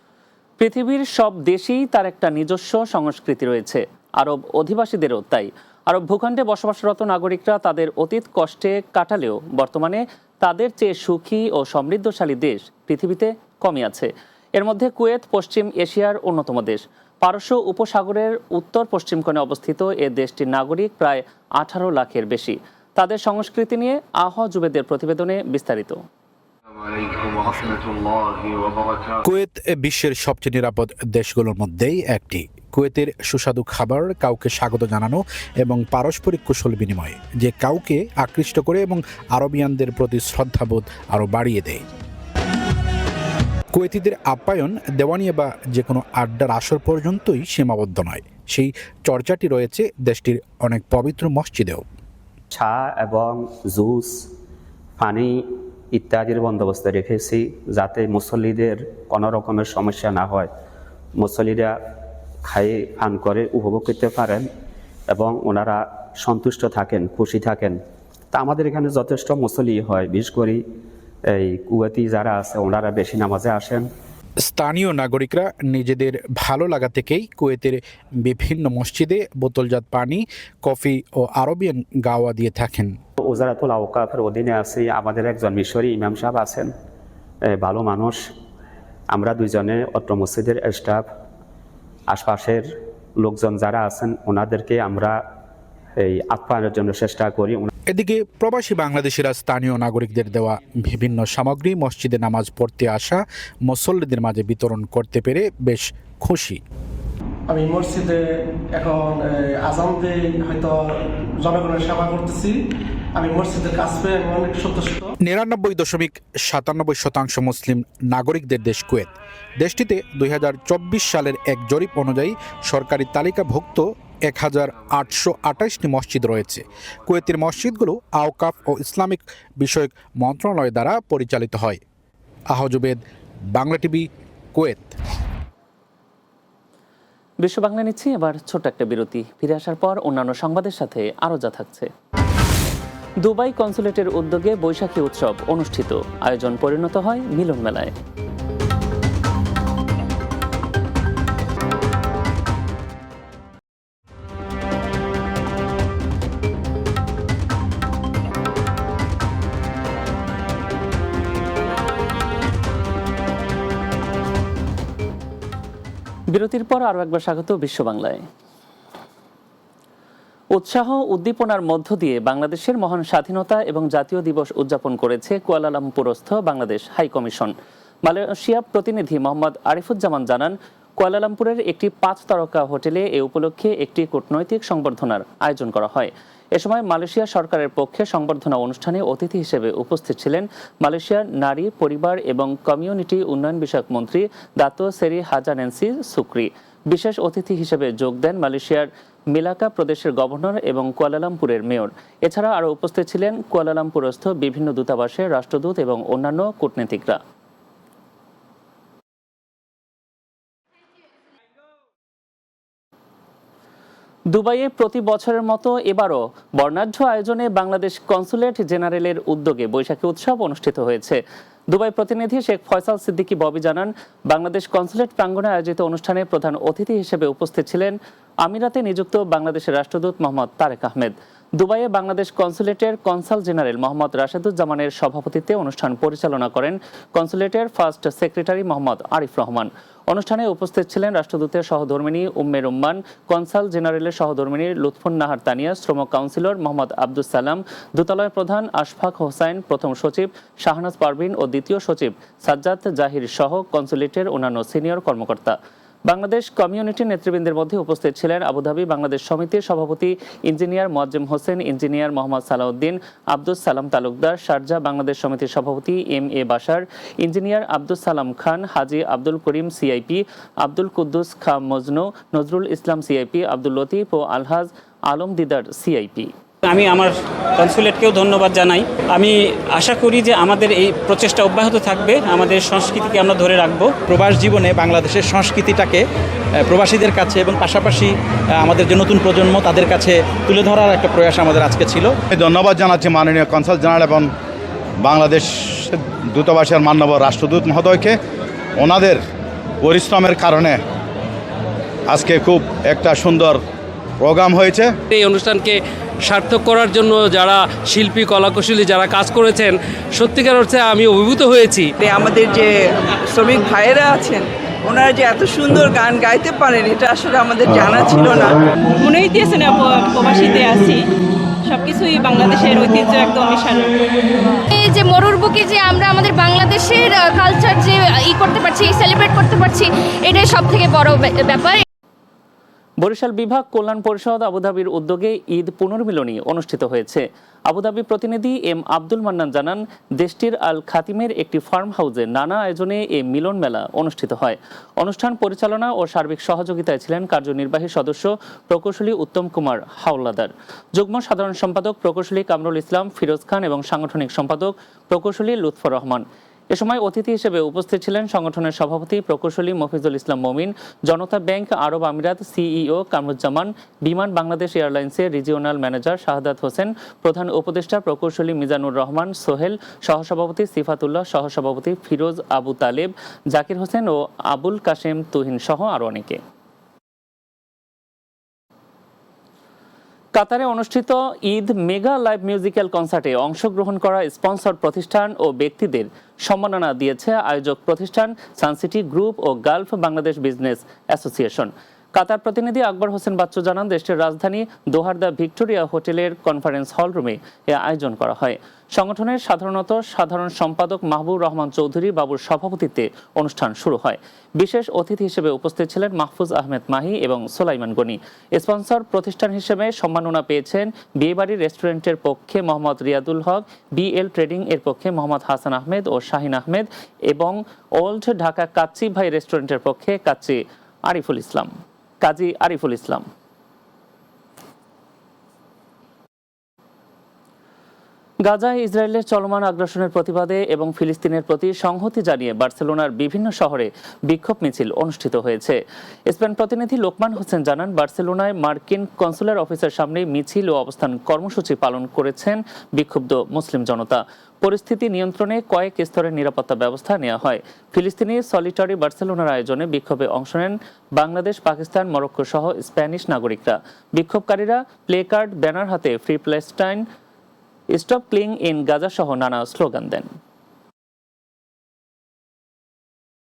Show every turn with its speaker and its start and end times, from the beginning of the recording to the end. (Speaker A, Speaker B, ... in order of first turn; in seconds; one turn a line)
Speaker A: 0.6-26.0
Speaker B: 29.2-41.8
Speaker B: 43.7-51.8
Speaker C: 52.5-54.2
Speaker C: 55.0-60.5
Speaker C: 61.2-61.8
Speaker C: 62.4-64.5
Speaker C: 65.1-67.8
Speaker C: 68.3-70.6
Speaker C: 71.3-73.9
Speaker B: 74.4-83.0
Speaker C: 83.2-86.7
Speaker C: 87.4-88.2
Speaker C: 89.1-91.0
Speaker C: 92.1-95.2
Speaker C: 96.0-97.7
Speaker B: 97.9-106.6
Speaker D: 107.5-112.5
Speaker D: 113.2-115.1
Speaker B: 115.2-131.8
Speaker B: 132.5-133.0
Speaker B: 133.6-134.9
Speaker A: 137.4-141.9
Speaker A: 143.2-147.9
Speaker A: 166.3-168.2
Speaker A: 170.5-177.5
Speaker A: 178.0-207.2
Speaker A: 214.3-221.2
Speaker A: 221.7-276.3
Speaker E: 276.7-283.9
Speaker F: 284.1-286.0
Speaker F: 286.6-292.1
Speaker G: 292.3-294.3
Speaker G: 295.0-298.1
Speaker G: 298.8-299.2
Speaker G: 299.8-300.8
Speaker G: 302.1-303.6
Speaker G: 304.2-304.9
Speaker H: 305.1-311.9
Speaker I: 312.0-318.6
Speaker J: 319.0-321.1
Speaker J: 321.6-323.9
Speaker K: 324.7-331.8
Speaker A: 333.0-376.4
Speaker A: 380.4-421.7
Speaker A: 422.2-423.2
Speaker A: 428.4-457.0
Speaker A: 457.9-460.3